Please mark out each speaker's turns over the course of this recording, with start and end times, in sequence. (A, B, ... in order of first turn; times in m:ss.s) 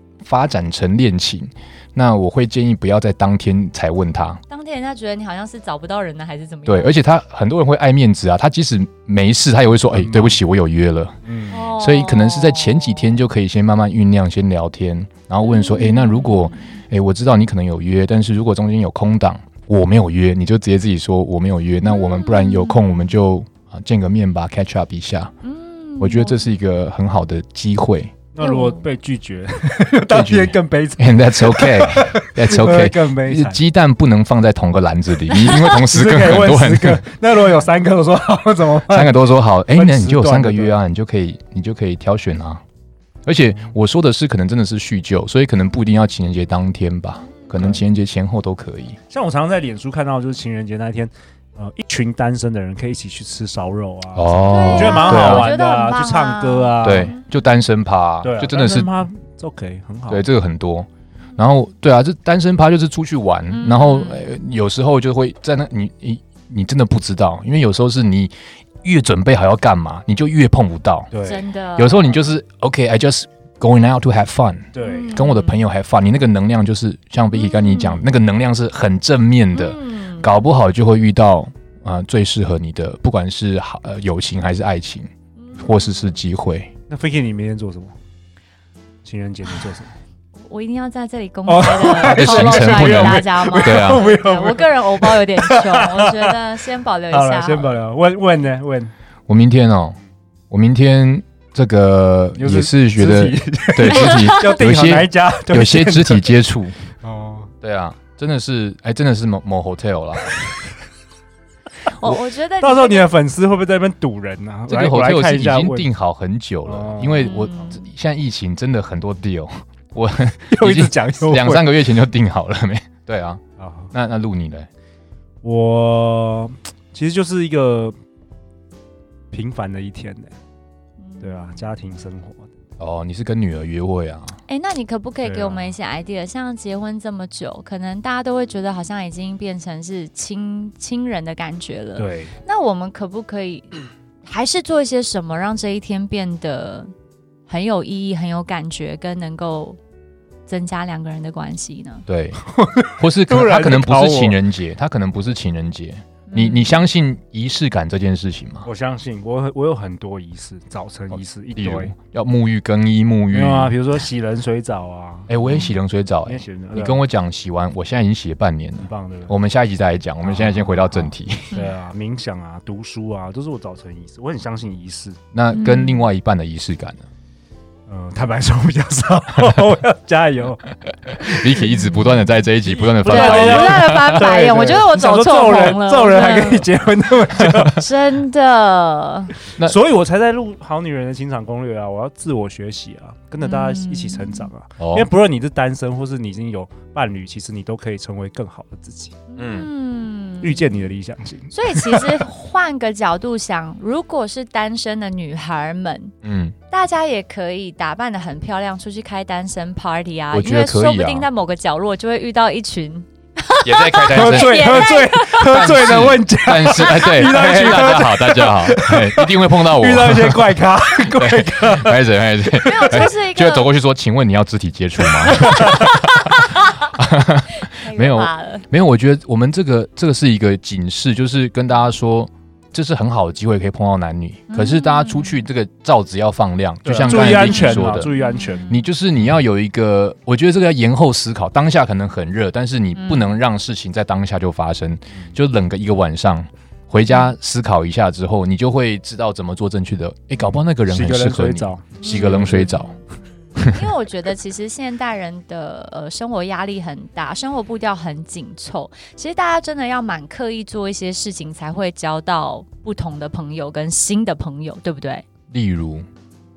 0:00.2-0:04.4 A
0:04.5-0:07.0 B
0:06.6-0:11.2 A
0:09.9-0:10.4 C
0:11.2-0:11.6 C
0:11.5-0:13.1 B
0:11.7-0:25.3 A
0:15.4-0:16.8 B
0:21.8-0:23.1 B
0:25.4-0:26.4 B
0:26.0-0:28.1 A
0:28.3-0:33.6 C
0:28.4-0:28.8 B
0:30.0-0:37.0 A
0:35.3-0:40.8 C
0:38.9-0:42.6 A
0:43.2-0:49.0 A
0:47.6-0:47.8 C
0:49.1-0:57.1 C
0:54.1-0:55.5 A
0:54.5-0:57.2 B
0:56.8-0:58.9 A
0:58.2-1:00.2 C
1:00.1-1:11.1 A
1:03.5-1:04.3 B
1:11.1-1:11.4 C
1:11.2-1:12.1 B
1:11.8-1:26.7 A
1:14.7-1:15.2 C
1:14.8-1:15.6 B
1:17.3-1:18.0 B
1:19.5-1:20.3 B
1:25.4-1:25.9 B
1:26.9-1:27.9 C
1:29.0-1:29.9 C
1:30.4-1:37.7 B
1:31.5-1:36.3 C
1:32.0-1:34.1 A
1:37.1-1:38.9 C
1:39.3-1:40.0 A
1:40.5-1:46.8 A
1:42.4-1:46.3 C
1:43.9-1:44.5 B
1:47.0-1:47.5 C
1:47.6-1:50.5 A
1:51.9-1:53.1 B
1:52.0-1:55.9 C
1:54.7-2:03.4 A
1:56.6-1:57.4 C
1:57.1-1:57.8 B
2:00.5-2:01.7 C
2:03.6-2:03.9 C
2:03.9-2:04.7 A
2:05.4-2:08.0 C
2:09.3-2:10.3 C
2:11.0-2:11.7 B
2:11.2-2:12.5 C
2:12.8-2:14.4 A
2:14.5-2:26.9 B
2:15.2-2:15.7 C
2:22.0-2:22.3 C
2:27.5-2:29.8 B
2:30.5-2:32.0 B
2:32.1-2:32.4 A
2:32.4-2:34.4 C
2:33.0-2:38.7 A
2:36.3-2:36.7 B
2:38.6-2:41.9 C
2:41.6-2:43.8 A
2:43.3-2:45.3 C
2:45.3-2:51.6 A
2:45.4-2:45.7 B
2:46.2-2:47.0 C
2:48.8-2:49.3 C
2:50.2-2:55.2 C
2:55.3-2:57.0 A
2:55.5-2:56.1 B
2:57.9-3:00.6 C
3:01.2-3:04.3 A
3:01.6-3:02.2 B
3:02.6-3:07.8 C
3:03.0-3:06.7 B
3:07.7-3:09.3 B
3:09.6-3:19.2 C
3:13.4-3:14.5 B
3:14.8-3:15.1 A
3:19.3-3:20.7 B
3:19.4-3:19.7 A
3:20.4-3:22.0 C
3:21.5-3:26.1 B
3:26.2-3:26.5 A
3:26.7-3:35.6 B
3:30.3-3:31.3 A
3:33.6-3:46.4 A
3:34.1-3:42.0 C
3:36.7-3:37.7 B
3:42.6-3:43.7 B
3:45.3-3:46.9 B
3:45.5-3:45.8 C
3:47.0-3:58.1 A
3:47.6-3:48.6 B
3:54.5-3:55.4 B
3:56.8-3:58.7 C
3:57.0-3:58.8 B
3:58.7-4:12.9 A
4:03.0-4:03.4 B
4:10.9-4:12.7 C
4:12.0-4:13.0 B
4:13.5-4:25.2 B
4:13.6-4:13.9 A
4:25.5-4:26.0 A